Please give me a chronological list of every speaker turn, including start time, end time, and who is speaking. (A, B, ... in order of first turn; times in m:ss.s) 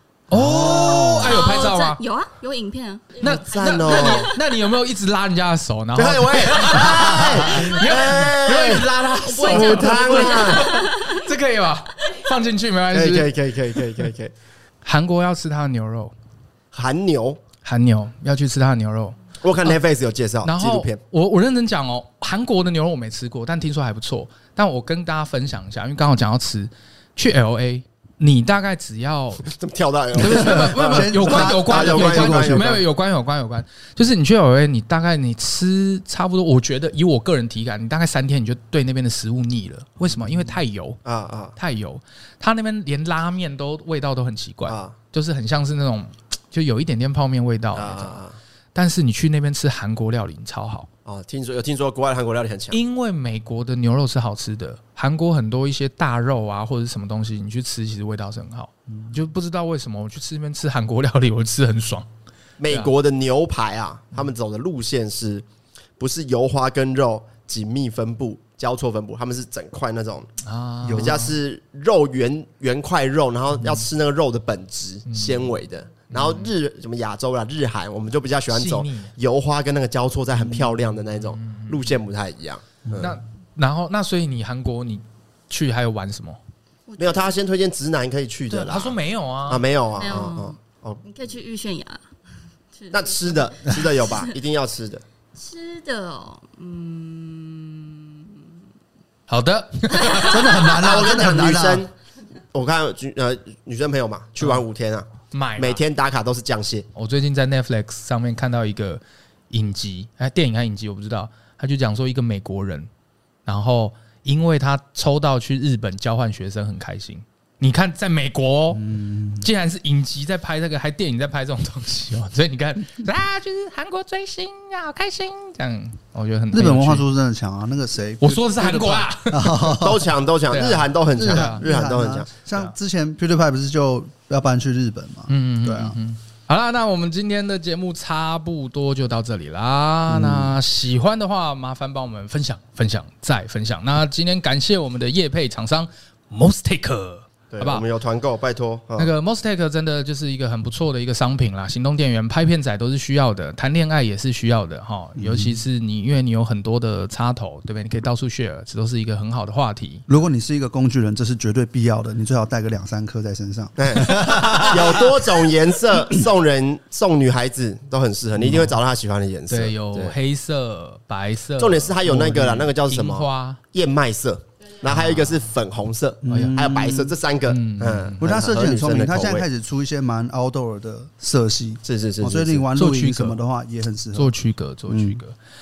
0:00.3-0:02.0 A
0:00.3-0:01.5 B
0:01.0-0:04.4 C
0:03.2-0:13.3 A
0:03.2-0:04.3 D
0:06.0-0:10.7 D
0:08.7-0:11.2 C
0:12.9-0:14.3 D
0:14.8-0:16.1 A
0:16.7-0:17.4 D
0:17.6-0:19.8 A
0:19.4-0:21.0 D
0:20.4-0:29.5 A
0:29.5-0:32.8 D
0:30.2-0:32.8 B
0:30.2-0:41.0 A
0:41.0-0:41.6 D
0:41.6-0:48.2 A
0:44.7-0:44.9 D
0:47.7-0:48.4 D
0:48.8-0:50.9 A
0:51.1-0:52.8 D
0:52.7-1:02.1 A
1:02.6-1:05.4 D
1:02.7-1:02.9 A
1:06.0-1:10.3 D
1:10.4-1:11.3 A
1:10.8-1:11.2 B
1:11.0-1:23.2 D
1:15.1-1:15.6 A
1:16.1-1:16.5 A
1:18.5-1:19.1 A
1:21.4-1:21.9 A
1:23.0-1:26.4 A
1:26.9-1:27.4 C
1:27.0-1:28.9 D
1:28.5-1:29.7 A
1:29.5-1:31.0 D
1:30.0-1:32.0 C
1:32.8-1:33.4 C
1:32.9-1:35.0 D
1:35.4-1:38.3 C
1:39.3-1:40.6 A
1:40.1-1:41.9 B
1:40.7-1:41.9 D
1:42.5-1:46.9 D
1:45.3-1:45.8 A
1:47.0-1:52.9 A
1:53.5-1:58.8 A
1:58.7-1:59.5 B
1:59.4-2:07.1 A
2:06.5-2:10.1 B
2:08.2-2:09.7 A
2:09.8-2:12.3 D
2:10.5-2:11.6 A
2:11.1-2:16.0 B
2:15.3-2:27.8 A
2:20.1-2:20.6 B
2:27.5-2:29.1 D
2:29.0-2:40.0 A
2:35.2-2:35.6 B
2:40.1-2:45.3 B
2:43.8-2:50.2 D
2:49.5-2:53.6 A
2:51.6-2:59.5 D
2:54.8-2:55.5 A
2:56.2-2:57.1 B
2:56.3-2:56.7 A
2:57.5-2:58.2 A
2:58.2-3:04.3 B
3:01.8-3:02.7 D
3:02.8-3:03.4 A
3:04.1-3:05.4 A
3:04.9-3:05.2 B